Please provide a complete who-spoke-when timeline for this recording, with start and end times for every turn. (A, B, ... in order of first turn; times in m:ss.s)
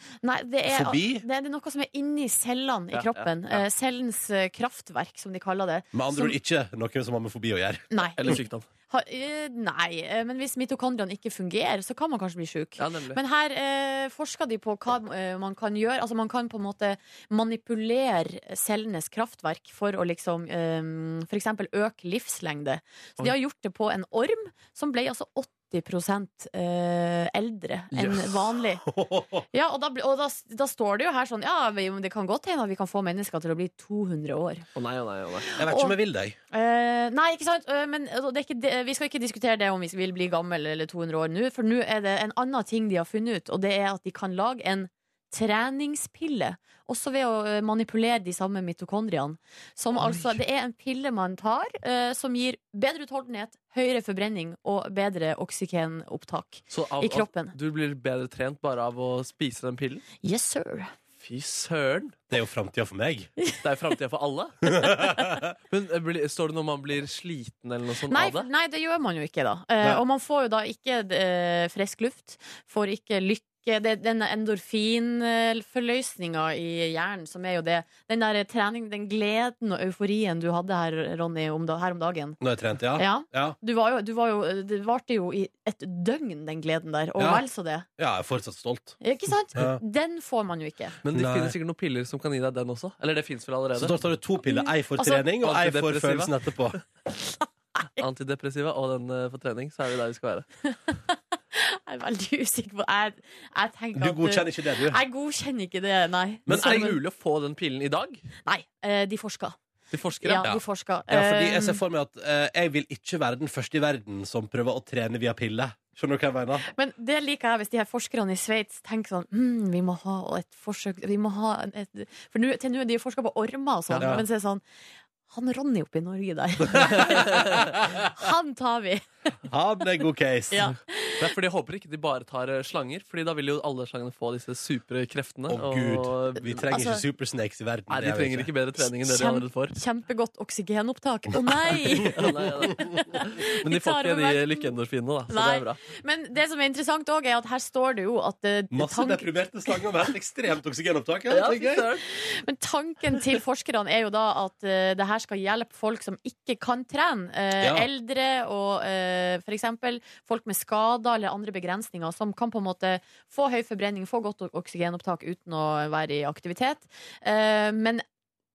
0:00.2-0:06.3 A
0:00.6-0:01.2 B
0:02.9-0:03.6 C
0:05.9-0:08.4 B
0:07.9-0:08.3 A
0:08.2-0:08.6 C
0:08.9-0:28.8 A
0:12.8-0:13.2 C
0:28.8-0:29.4 B
0:29.5-0:34.6 A
0:34.7-0:35.5 C
0:35.4-0:36.0 A
0:35.6-0:36.4 B
0:36.5-0:57.5 A
0:56.7-1:00.0 C
1:00.2-1:00.9 A
1:01.2-1:02.2 C
1:02.3-1:03.3 B
1:03.6-1:04.8 C
1:04.8-1:05.5 B
1:05.7-1:08.5 C
1:08.1-1:22.4 A
1:22.4-1:23.6 B
1:23.0-1:27.8 A
1:27.2-1:27.4 B
1:28.0-1:29.0 B
1:29.0-1:31.0 A
1:29.5-1:29.8 B
1:31.0-1:34.0 C
1:31.1-1:31.5 B
1:33.7-1:36.8 B
1:34.4-1:35.2 A
1:35.4-1:36.3 C
1:37.4-1:38.0 A
1:38.0-1:40.5 C
1:40.7-1:47.0 A
1:43.9-1:45.0 B
1:46.4-1:46.9 B
1:46.5-1:48.2 C
1:48.4-1:49.6 A
1:49.9-1:50.5 C
1:50.2-1:51.8 A
1:50.4-1:56.7 B
1:56.7-2:04.6 A
2:03.9-2:04.2 C
2:04.0-2:04.2 B
2:05.3-2:09.0 A
2:06.6-2:08.1 B
2:07.2-2:07.5 C
2:09.5-2:10.7 B
2:10.5-2:11.3 A
2:11.2-2:16.6 C
2:15.5-2:18.5 B
2:16.7-2:17.0 A
2:17.9-2:19.7 C
2:19.0-2:24.7 A
2:21.9-2:25.8 C
2:25.3-2:29.3 A
2:28.7-2:31.9 B
2:31.3-2:32.0 C
2:32.1-2:48.0 A
2:37.6-2:37.9 B